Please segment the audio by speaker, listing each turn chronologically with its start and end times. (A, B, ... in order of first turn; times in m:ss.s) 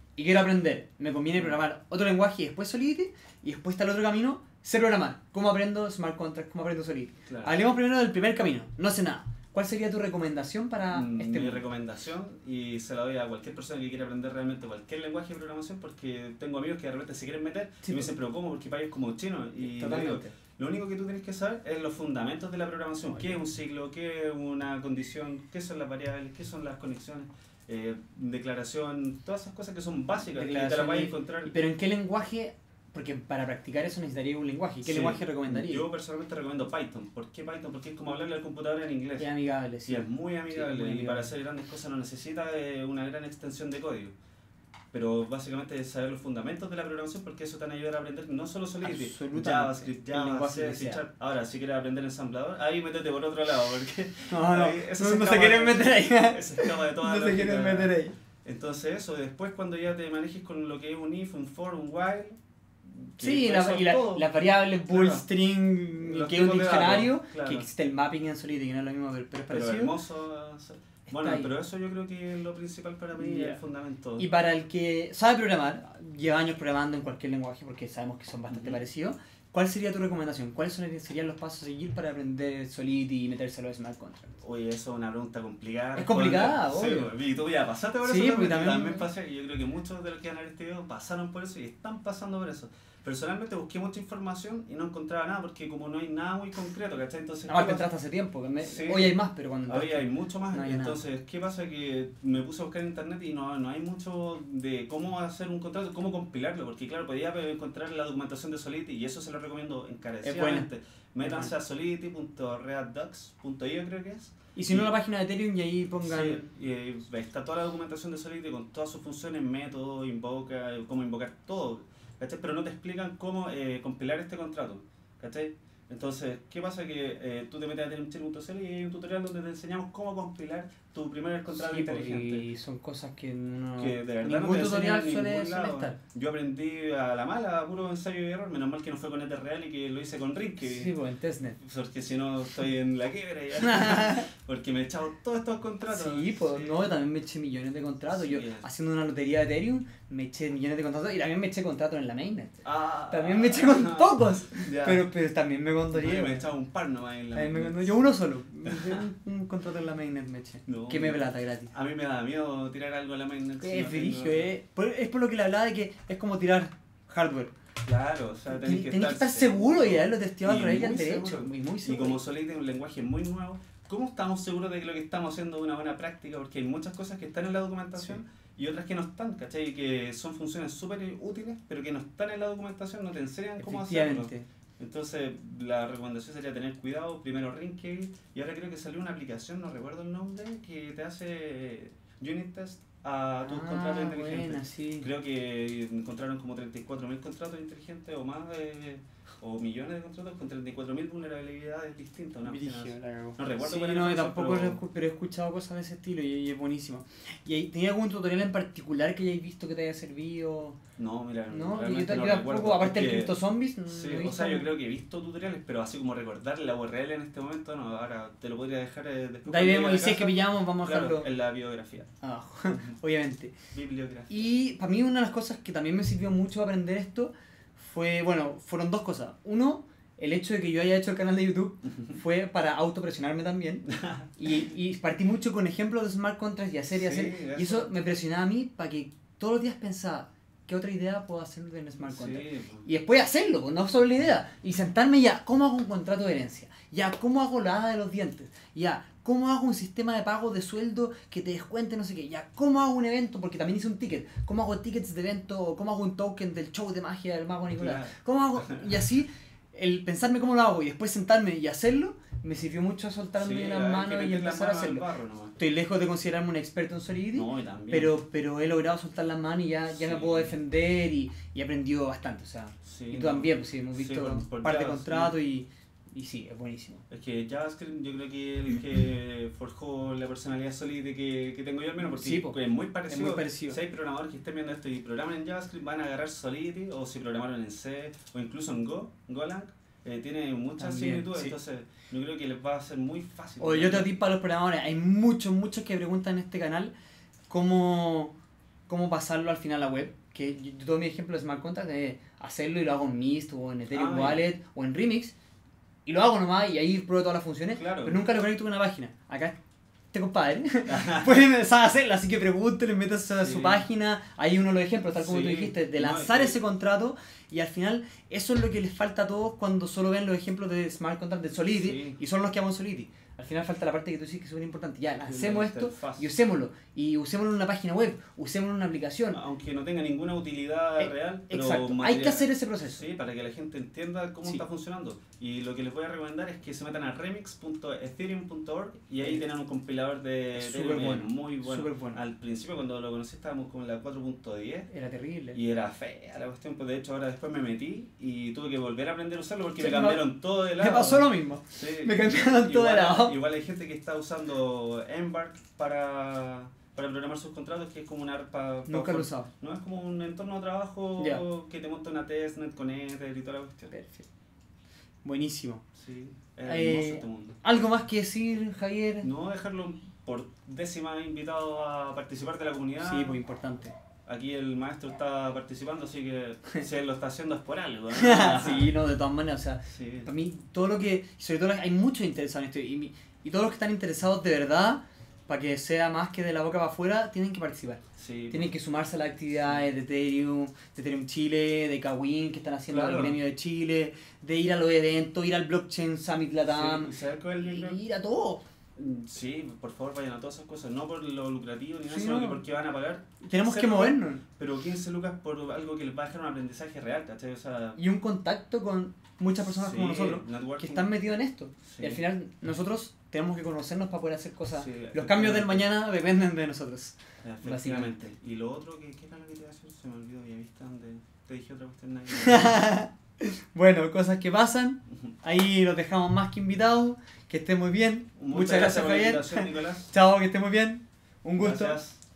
0:00.2-0:11.6 A
0:01.3-0:01.6 B
0:07.3-0:07.6 B
0:10.9-0:31.5 B
0:17.8-0:18.1 A
0:19.6-0:20.4 A
0:30.3-0:35.8 A
0:34.8-0:39.3 B
0:39.2-0:41.3 A
0:39.9-0:44.1 B
0:44.9-1:04.3 B
0:48.8-0:51.0 A
0:54.3-0:58.1 A
1:03.2-1:10.0 A
1:04.9-1:05.3 B
1:06.0-1:07.7 B
1:09.5-1:14.3 B
1:11.1-1:11.5 A
1:13.2-1:13.6 A
1:14.2-1:24.4 A
1:18.5-1:18.8 B
1:24.4-1:37.9 B
1:26.0-1:27.1 A
1:28.0-1:29.1 A
1:37.5-1:41.0 A
1:38.6-1:54.9 B
1:50.2-1:50.7 A
1:51.2-1:51.5 A
1:54.6-1:56.4 A
1:56.0-2:12.5 B
2:11.5-2:16.0 A
2:13.8-2:20.9 B
2:20.6-2:21.6 A
2:21.6-2:26.9 B
2:23.6-2:24.3 A
2:25.9-2:32.6 A
2:28.1-2:28.7 B
2:32.6-2:35.0 B
2:33.1-2:36.5 A
2:35.9-2:38.1 B
2:37.3-2:41.7 A
2:38.6-2:39.0 B
2:40.7-2:44.5 B
2:43.6-2:47.5 A
2:47.8-3:24.8 B
2:48.5-2:52.2 A
3:03.6-3:04.5 A
3:13.4-3:15.1 A
3:22.4-3:30.8 A
3:31.0-3:42.1 B
3:31.5-3:34.7 A
3:39.5-3:41.3 A
3:42.2-3:43.6 A
3:43.7-3:44.4 B
3:44.3-4:25.0 A
3:53.9-3:54.3 B
3:56.9-3:57.9 B
4:02.0-4:02.9 B
4:17.8-4:18.9 B
4:23.4-4:25.6 B
4:25.6-4:37.0 A
4:27.3-4:28.1 B
4:29.9-4:30.6 B
4:32.8-4:35.4 B
4:37.1-4:54.1 B
4:42.0-4:43.8 A
4:50.8-4:51.6 A
4:53.6-4:56.9 A
4:57.5-4:58.4 A
4:58.9-5:05.3 A
5:03.9-5:04.4 B
5:06.1-5:09.6 A
5:07.7-5:08.2 B
5:10.1-5:29.4 A
5:10.9-5:11.3 B
5:13.4-5:13.9 B
5:15.2-5:16.6 B
5:21.7-5:22.2 B
5:25.2-5:26.3 B
5:29.3-5:44.9 B
5:31.0-5:33.0 A
5:40.6-5:42.2 A
5:44.9-5:45.6 A
5:45.5-6:03.9 B
5:49.8-5:50.2 A
5:50.8-5:53.4 A
5:58.9-5:59.5 A
6:01.2-6:01.4 A
6:03.9-6:04.3 A
6:05.2-6:05.8 A
6:06.0-6:07.6 B
6:06.6-6:09.3 A
6:09.2-6:13.4 B
6:13.0-6:13.9 A
6:14.3-6:18.9 B
6:18.1-6:38.6 A
6:19.8-6:20.3 B
6:28.2-6:28.8 B
6:32.9-6:33.4 B
6:36.7-6:38.0 B
6:39.0-6:48.0 B
6:42.1-6:42.6 A
6:43.4-6:44.4 A
6:48.0-6:58.1 A
6:49.7-6:51.1 B
6:51.9-6:52.2 B
6:54.7-6:55.9 B
6:57.4-7:02.8 B
7:02.3-7:12.0 A
7:08.4-7:10.1 B
7:11.6-7:12.2 B